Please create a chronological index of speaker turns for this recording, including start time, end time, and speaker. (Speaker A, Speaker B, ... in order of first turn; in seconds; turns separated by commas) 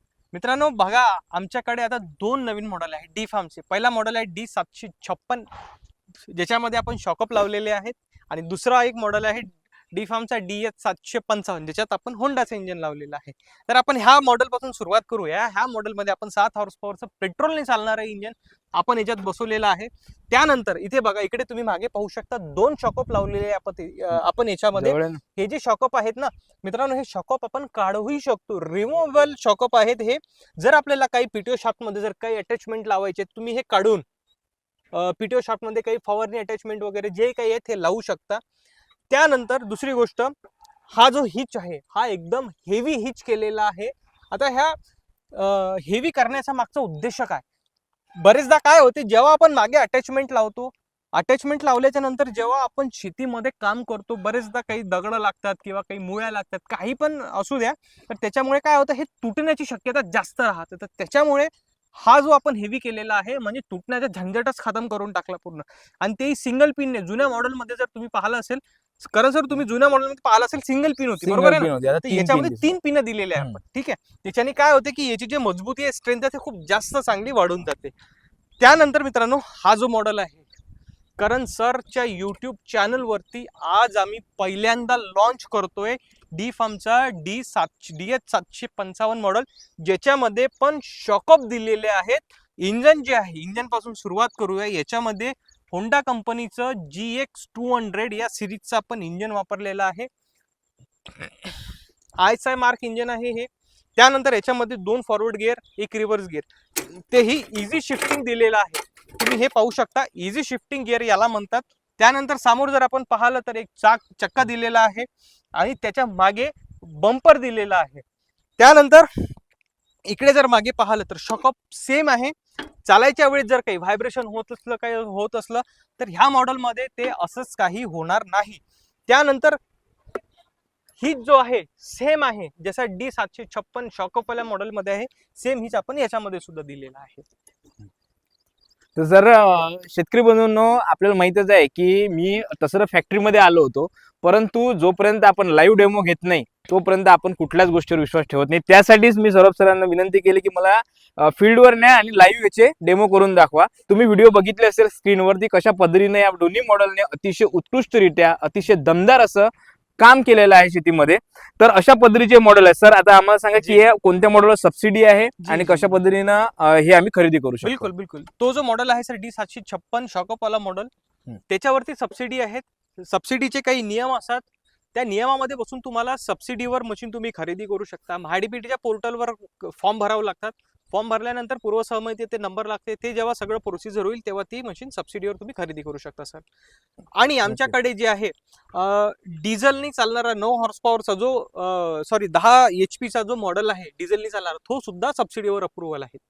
Speaker A: 0.3-5.5, Speaker A: 6.2-34.0, Speaker B: 24.8-25.2, Speaker A: 34.9-38.4, Speaker A: 39.1-40.3, Speaker A: 40.9-44.8, Speaker A: 45.3-47.4, Speaker A: 48.2-77.9, Speaker B: 71.2-72.7, Speaker A: 78.6-80.5, Speaker A: 81.2-100.1, Speaker A: 101.2-101.5, Speaker A: 102.2-118.0, Speaker A: 118.6-119.4, Speaker A: 120.0-129.6, Speaker A: 131.0-137.2, Speaker B: 138.9-167.9, Speaker A: 163.5-163.8, Speaker A: 165.4-166.0, Speaker A: 167.6-170.9, Speaker A: 171.5-186.4, Speaker A: 187.1-196.2, Speaker B: 187.5-187.7